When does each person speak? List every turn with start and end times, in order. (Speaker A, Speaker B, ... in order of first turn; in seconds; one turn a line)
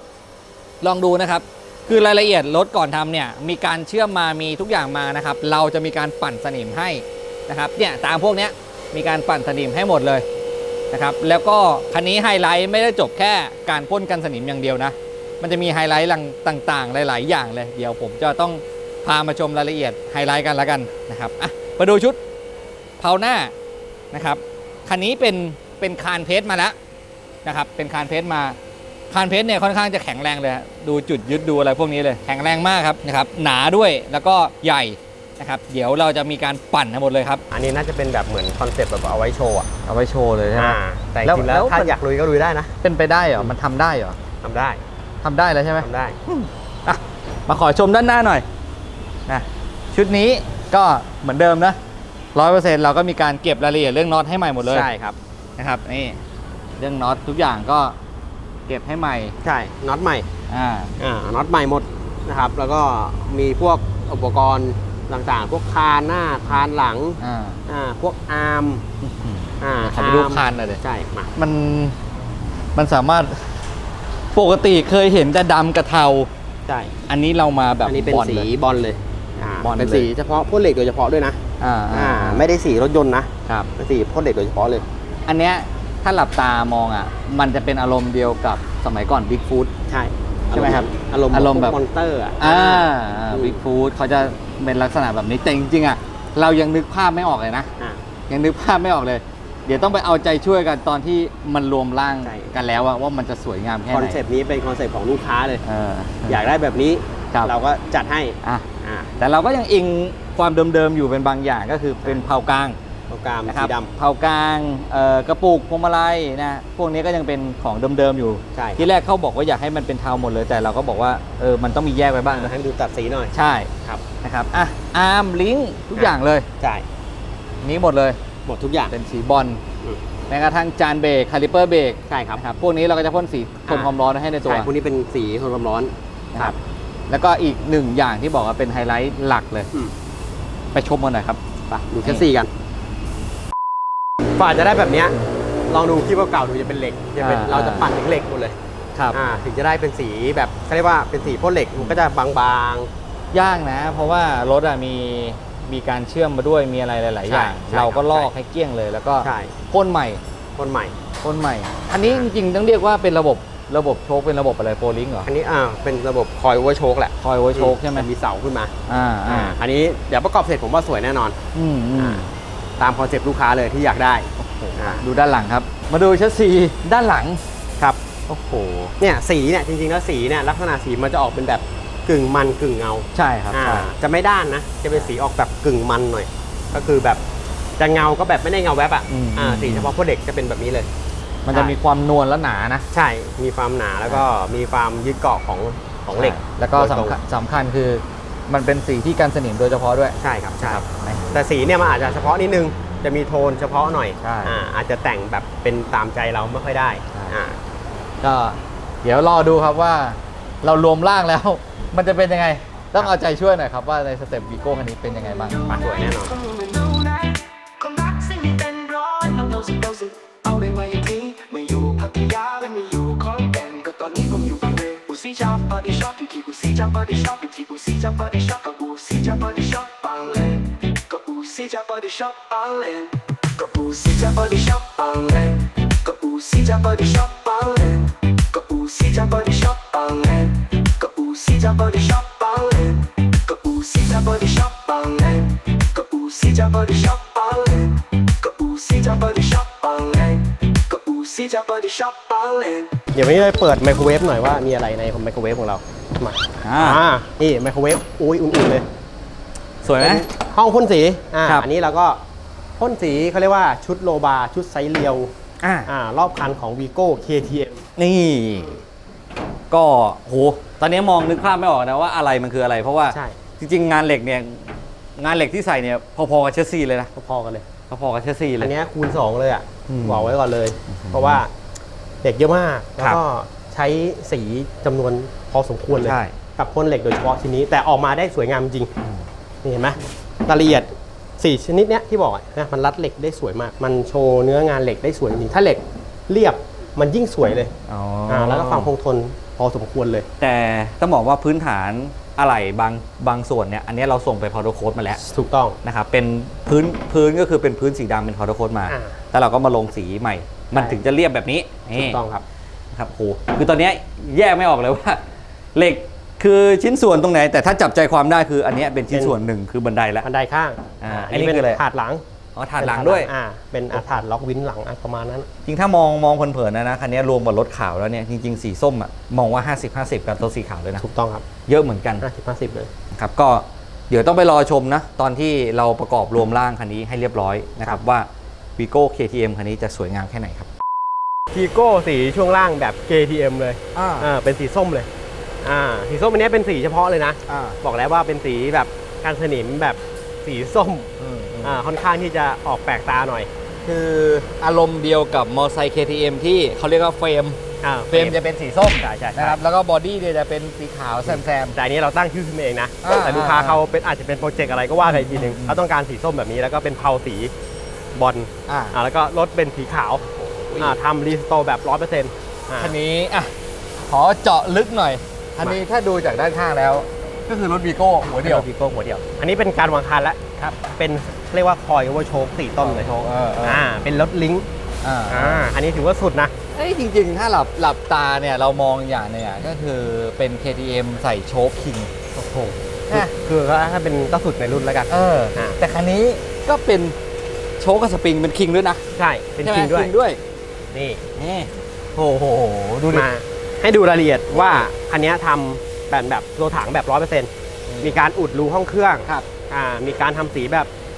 Speaker A: 0.8-10.2
Speaker A: 10.9-22.2
Speaker A: 23.0-23.5
Speaker A: 24.1-26.7
Speaker A: 27.4-28.6
Speaker A: 29.1-37.4
Speaker B: 37.5-39.7
Speaker A: 39.9-41.9
Speaker B: 40.5-42.7
Speaker A: 42.8-44.2
Speaker B: 44.4-44.8
Speaker A: 45.2-48.4
Speaker B: 45.8-46.2
Speaker A: 49.3-51.8
Speaker A: 52.3-54.9
Speaker B: 54.6-55.1
Speaker A: 55.6-56.2
Speaker A: 56.8-58.0
Speaker A: 58.7-59.3
Speaker B: 59.4-60.2
Speaker A: 60.5-60.9
Speaker B: 61.0-68.8
Speaker A: 67.2-67.6
Speaker A: 69.0-70.8
Speaker B: 69.6-71.3
Speaker A: 71.3-72.0
Speaker A: 72.7-73.5
Speaker A: 74.3-76.3
Speaker B: 76.7-76.9
Speaker A: 77.1-78.5
Speaker B: 77.8-81.4
Speaker A: 79.6-80.1
Speaker A: 81.6-82.4
Speaker B: 81.9-84.8
Speaker A: 85.3-89.7
Speaker B: 89.9-93.6
Speaker A: 90.5-91.8
Speaker A: 92.4-97.7
Speaker A: 98.3-104.2
Speaker B: 102.2-102.5
Speaker B: 103.9-105.6
Speaker A: 105.6-106.4
Speaker B: 106.3-109.1
Speaker A: 109.2-112.8
Speaker B: 113.1-113.9
Speaker A: 113.5-122.5
Speaker B: 118.5-118.8
Speaker B: 122.3-123.3
Speaker A: 123.3-123.7
Speaker A: 124.2-126.5
Speaker B: 125.9-126.8
Speaker A: 127.6-128.2
Speaker B: 128.4-128.9
Speaker A: 128.9-129.6
Speaker A: 130.3-134.7
Speaker B: 132.1-132.4
Speaker B: 133.7-133.9
Speaker B: 134.4-136.6
Speaker A: 137.1-139.7
Speaker A: 140.7-141.4
Speaker B: 141.7-142.5
Speaker B: 144.3-145.1
Speaker B: 145.7-148.6
Speaker A: 147.2-147.9
Speaker B: 149.1-152.9
Speaker A: 153.3-160.2
Speaker B: 157.2-158.3
Speaker B: 159.2-159.5
Speaker B: 160.6-160.9
Speaker A: 161.2-165.3
Speaker B: 165.2-168.7
Speaker A: 167.2-168.1
Speaker A: 168.9-169.6
Speaker B: 169.3-171.4
Speaker A: 171.5-172.3
Speaker B: 171.9-172.2
Speaker B: 172.8-175.0
Speaker A: 174.4-177.4
Speaker A: 178.3-178.9
Speaker B: 179.0-187.2
Speaker A: 183.1-183.9
Speaker B: 187.8-190.9
Speaker A: 189.1-189.9
Speaker A: 191.4-192.8
Speaker B: 192.9-197.2
Speaker A: 196.1-201.3
Speaker B: 200.2-207.6
Speaker A: 204.2-204.6
Speaker A: 208.2-215.7
Speaker B: 215.7-216.4
Speaker C: 216.3-253.0
Speaker B: 253.1-258.8
Speaker A: 256.6-257.0
Speaker A: 259.8-260.2
Speaker B: 259.9-262.2
Speaker B: 262.8-265.3
Speaker A: 265.6-265.9
Speaker B: 265.9-267.8
Speaker A: 268.0-268.8
Speaker A: 269.7-277.1
Speaker B: 273.1-273.4
Speaker B: 277.1-277.7
Speaker A: 277.9-278.7
Speaker B: 278.6-281.5
Speaker A: 279.9-280.3
Speaker A: 280.9-281.4
Speaker B: 282.2-288.9
Speaker A: 285.9-286.3
Speaker B: 289.6-297.7
Speaker A: 297.8-298.9
Speaker B: 298.3-300.3
Speaker A: 300.4-305.2
Speaker B: 305.3-305.8
Speaker A: 305.8-312.2
Speaker B: 308.9-309.1
Speaker B: 310.7-311.0
Speaker B: 311.9-312.4
Speaker A: 312.9-315.2
Speaker A: 315.7-320.3
Speaker B: 319.1-319.4
Speaker B: 320.2-322.2
Speaker A: 321.0-321.8
Speaker A: 322.5-323.3
Speaker B: 322.8-325.5
Speaker A: 325.6-331.0
Speaker B: 331.0-331.4
Speaker A: 331.6-332.2
Speaker B: 332.2-332.9
Speaker A: 333.1-340.7
Speaker B: 341.5-345.1
Speaker A: 343.9-344.3
Speaker B: 345.6-351.1
Speaker A: 347.5-347.8
Speaker A: 351.2-351.8
Speaker B: 351.6-353.5
Speaker A: 353.8-357.6
Speaker B: 357.8-358.4
Speaker A: 358.1-361.8
Speaker B: 358.9-359.6
Speaker B: 361.3-367.5
Speaker A: 363.0-363.8
Speaker A: 365.0-365.8
Speaker B: 368.1-372.9
Speaker A: 368.7-368.9
Speaker A: 370.4-370.9
Speaker A: 372.8-373.5
Speaker A: 374.0-378.6
Speaker B: 378.4-384.6
Speaker A: 382.8-383.8
Speaker A: 385.0-385.7
Speaker B: 385.3-386.5
Speaker A: 386.7-392.1
Speaker B: 392.3-395.8
Speaker A: 395.1-397.1
Speaker A: 397.8-399.0
Speaker B: 399.1-400.1
Speaker A: 399.6-400.4
Speaker B: 400.9-401.2
Speaker A: 401.3-403.3
Speaker B: 403.1-407.5
Speaker A: 407.9-408.1
Speaker B: 408.0-410.9